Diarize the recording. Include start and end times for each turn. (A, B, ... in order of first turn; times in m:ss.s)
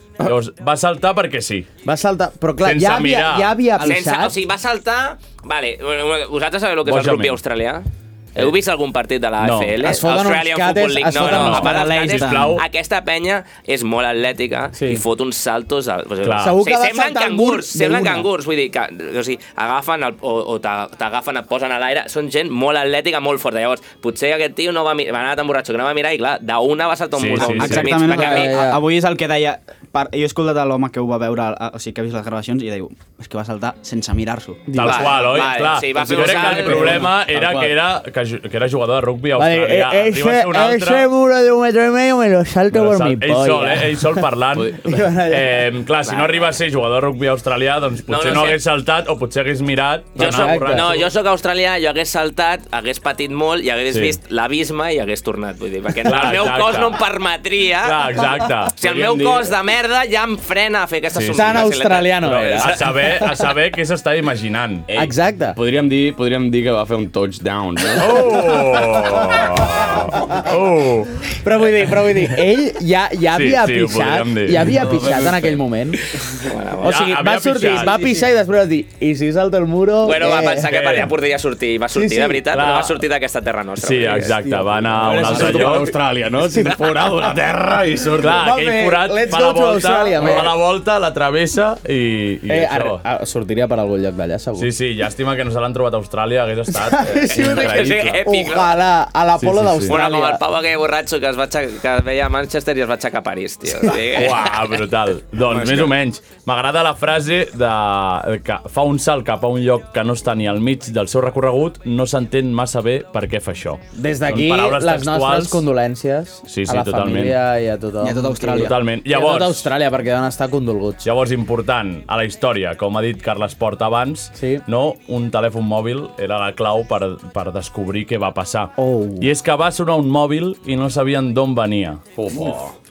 0:00.2-0:01.7 A
0:01.8-0:04.4 B
0:02.6-0:03.5 A
0:03.8-0:28.6 C
0:06.8-0:07.4 A
0:09.4-0:09.8 A
0:09.8-0:11.7 B
0:11.2-0:12.6 A
0:11.2-0:12.6 D
0:14.8-0:15.0 B
0:16.2-0:16.6 A
0:16.4-0:18.3 B
0:27.1-0:27.9 A
0:27.4-0:34.6 D
0:28.1-0:28.8 B
0:34.7-0:35.2 B
0:34.7-0:41.1 A
0:34.8-0:37.1 C
0:35.5-0:37.8 E
0:39.4-0:44.2 B
0:42.7-0:51.1 A
0:44.5-0:45.0 E
0:44.8-0:45.6 B
0:46.0-0:46.4 C
0:48.1-0:48.6 C
0:50.2-0:58.2 C
0:50.2-0:50.9 B
0:53.9-0:54.2 A
0:56.0-0:57.0 A
0:57.8-0:58.7 A
0:58.8-1:02.8 C
0:58.8-0:59.5 E
1:01.1-1:01.6 A
1:01.3-1:03.4 B
1:02.2-1:04.9 A
1:04.9-1:08.4 E
1:04.9-1:05.6 B
1:08.0-1:11.3 A
1:09.0-1:09.4 B
1:11.4-1:16.0 B
1:13.3-1:14.7 A
1:14.8-1:15.5 E
1:16.4-1:17.1 C
1:16.8-1:20.8 B
1:16.8-1:18.1 A
1:20.0-1:24.3 C
1:20.5-1:21.1 A
1:21.9-1:22.4 B
1:22.5-1:23.0 A
1:23.8-1:25.9 A
1:24.1-1:25.7 B
1:24.9-1:28.5 E
1:26.4-1:26.9 B
1:28.2-1:33.0 A
1:28.3-1:30.5 B
1:32.5-1:34.7 B
1:34.6-1:38.3 A
1:36.8-1:40.4 B
1:37.2-1:38.7 C
1:39.4-1:40.0 A
1:39.9-1:44.5 C
1:44.1-1:55.6 A
1:45.4-1:45.9 E
1:54.0-2:01.0 B
1:56.5-1:57.4 A
1:58.0-1:58.7 D
1:58.4-1:59.7 A
2:01.0-2:12.0 A
2:04.4-2:04.6 B
2:08.8-2:09.3 B
2:12.1-2:12.7 E